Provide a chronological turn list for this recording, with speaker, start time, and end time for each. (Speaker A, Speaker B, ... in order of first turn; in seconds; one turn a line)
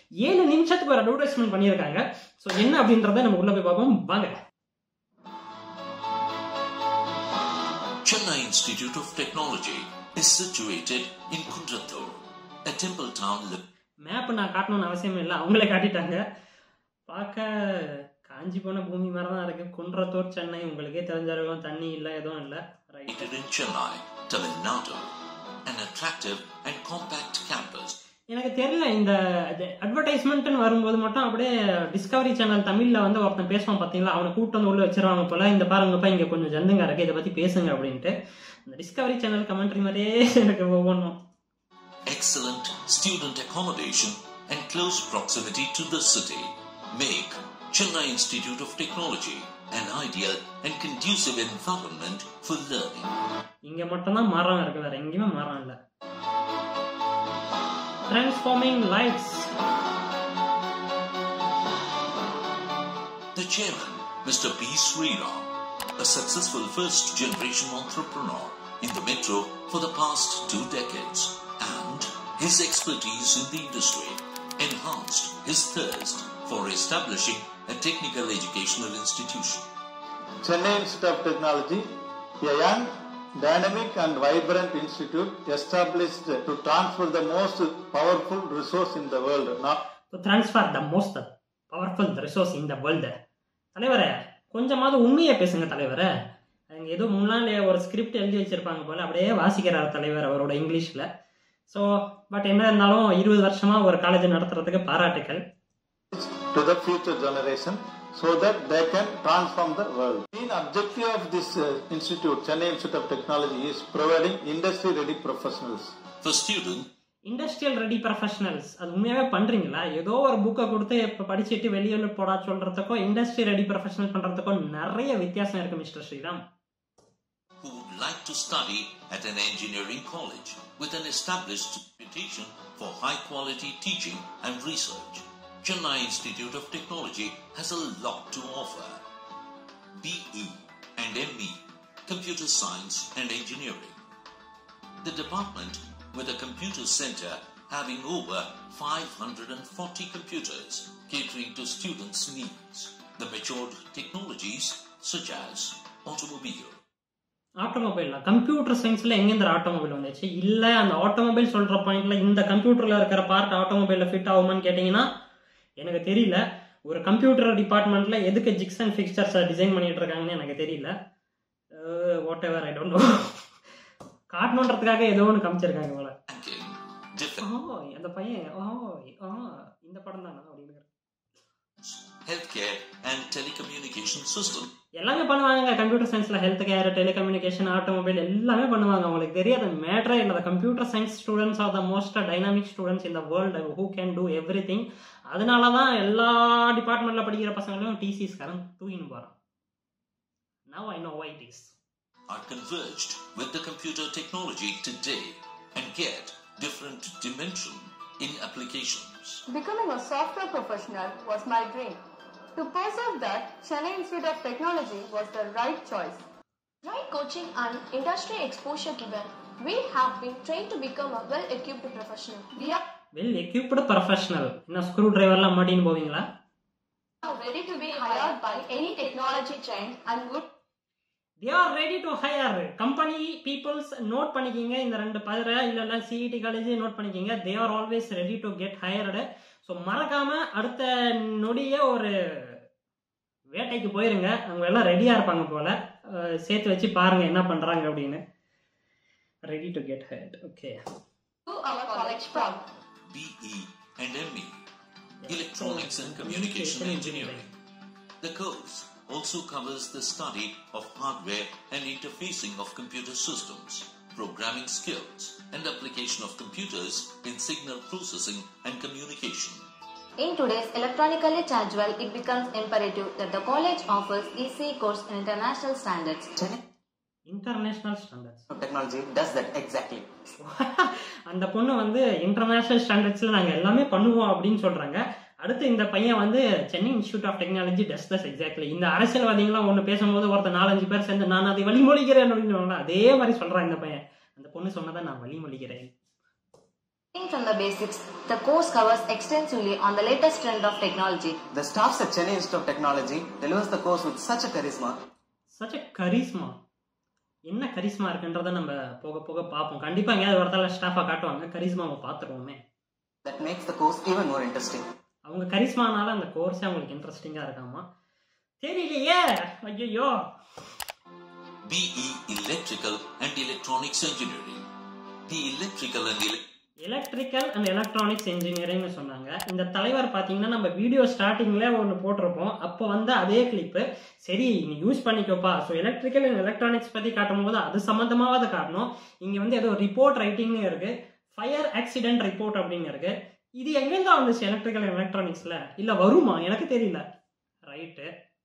Speaker A: 0.2-4.3
Speaker B: 8.0-13.6
Speaker A: 14.1-16.2
Speaker A: 17.1-23.3
Speaker B: 23.1-25.1
Speaker B: 25.6-27.9
Speaker A: 28.3-38.1
Speaker A: 38.6-41.2
Speaker B: 42.1-53.1
Speaker A: 53.6-55.8
Speaker A: 58.1-59.5
Speaker B: 63.3-79.7
Speaker C: 80.4-81.8
Speaker C: 82.4-89.8
Speaker A: 90.1-93.1
Speaker A: 93.7-96.1
Speaker A: 96.7-101.1
Speaker A: 101.7-105.4
Speaker C: 106.1-115.9
Speaker B: 116.2-116.9
Speaker A: 117.3-126.4
Speaker B: 127.6-139.0
Speaker B: 140.0-144.0
Speaker B: 145.0-156.8
Speaker A: 157.6-165.1
Speaker A: 165.8-170.9
Speaker A: 171.7-173.3
Speaker A: 174.3-176.1
Speaker B: 176.3-177.4
Speaker A: 177.4-180.9
Speaker B: 181.8-184.7
Speaker A: 185.0-199.3
Speaker A: 200.7-201.7
Speaker B: 202.3-209.4
Speaker D: 209.5-212.0
Speaker D: 212.5-216.2
Speaker E: 216.8-222.8
Speaker A: 223.2-226.2
Speaker E: 227.3-230.4
Speaker D: 227.9-229.4
Speaker A: 231.4-242.1
Speaker A: 243.5-248.2
Speaker A: 249.5-250.8
Speaker E: 251.5-252.5
Speaker D: 251.6-252.6
Speaker B: 253.1-254.6
Speaker A: 255.2-257.4
Speaker B: 255.3-257.5
Speaker B: 258.2-269.6
Speaker F: 270.2-276.3
Speaker A: 277.3-278.4
Speaker G: 278.5-280.1
Speaker A: 280.4-295.9
Speaker F: 297.1-301.4
Speaker G: 301.5-304.9
Speaker A: 305.6-306.6
Speaker A: 307.5-312.6
Speaker G: 313.2-314.8
Speaker A: 315.3-317.9
Speaker A: 318.6-320.2
Speaker B: 321.6-324.6
Speaker B: 325.3-326.4
Speaker A: 326.8-347.1
Speaker A: 347.7-348.1